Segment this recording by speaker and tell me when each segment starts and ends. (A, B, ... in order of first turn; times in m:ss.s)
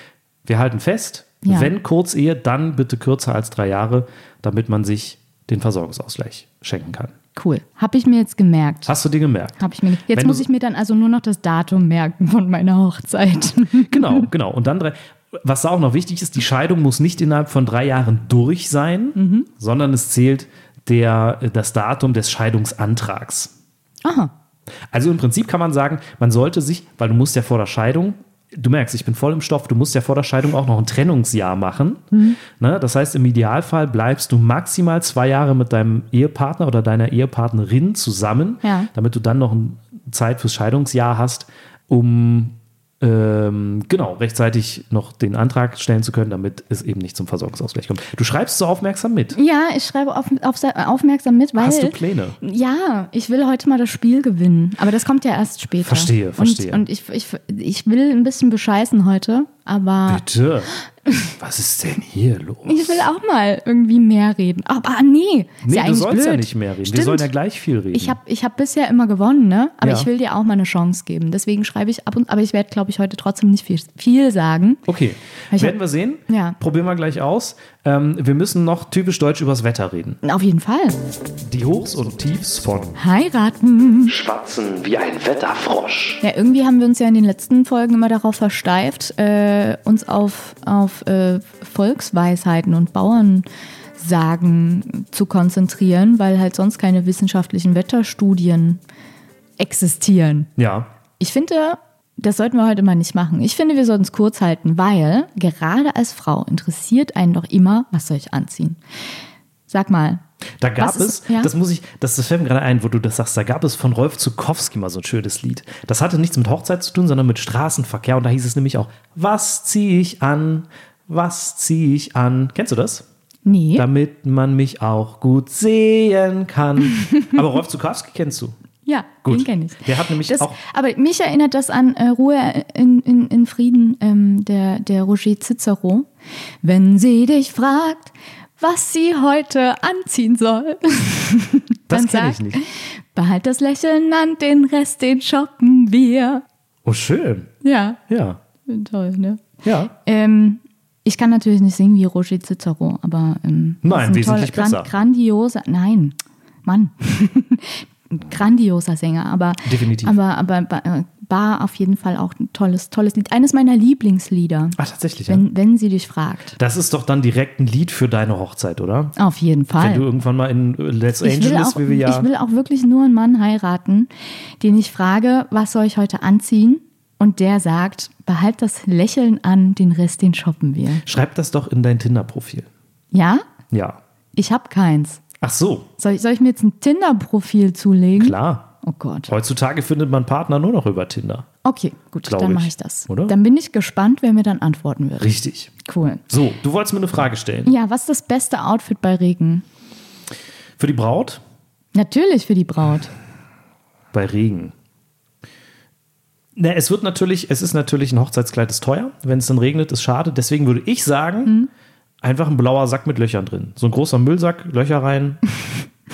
0:00.4-0:07.1 A
0:01.4-0:01.7 B
0:07.4-0:08.9 B
0:08.8-0:09.6 A
0:09.6-0:14.3 B
0:10.1-0:10.4 A
0:13.9-0:23.5 A
0:19.2-0:19.5 B
0:24.0-0:24.3 B
0:24.9-0:49.4 A
0:32.1-0:32.4 B
0:38.6-0:38.9 B
0:49.3-1:00.2 B
0:51.6-0:52.4 A
0:55.8-0:56.8 A
1:00.1-1:00.7 A
1:01.4-1:03.0 A
1:02.6-1:07.3 B
1:05.6-1:08.2 A
1:07.9-1:14.8 B
1:09.8-1:10.1 A
1:14.9-1:20.2 A
1:15.5-1:15.8 B
1:16.3-1:16.6 B
1:20.2-1:21.0 B
1:21.4-1:23.0 A
1:23.0-1:24.2 B
1:24.1-1:26.2 A
1:26.2-1:33.4 B
1:34.0-1:38.8 B
1:39.6-1:40.5 B
1:40.6-1:40.9 A
1:41.2-1:48.8 B
1:49.7-1:50.2 B
1:50.6-2:03.0 A
1:50.8-1:51.5 B
2:03.4-2:03.9 B
2:03.8-2:08.5 A
2:08.8-2:16.1 B
2:09.2-2:10.6 A
2:16.6-2:26.4 B
2:21.9-2:22.6 A
2:26.8-2:27.5 A
2:27.6-2:28.0 B
2:28.1-2:28.4 A
2:28.7-2:44.8 B
2:29.6-2:29.9 A
2:33.8-2:34.9 A
2:39.6-2:40.2 A
2:44.8-2:45.4 A
2:45.3-2:46.6 B
2:46.6-2:49.1 A
2:49.2-2:50.0 B
2:49.8-2:52.3 A
2:51.2-3:01.0 B
3:01.0-3:02.7 A
3:03.1-3:03.4 B
3:03.7-3:04.0 A
3:04.4-3:05.2 B
3:05.4-3:05.9 A
3:06.0-3:09.3 B
3:08.2-3:08.7 A
3:09.3-3:11.5 A
3:11.6-3:16.2 B
3:12.2-3:13.3 A
3:15.2-3:15.7 A
3:16.3-3:17.7 A
3:17.6-3:19.6 B
3:20.8-3:21.4 A
3:21.9-3:23.1 B
3:24.1-3:24.7 A
3:26.6-3:31.5 A
3:32.2-3:35.4 A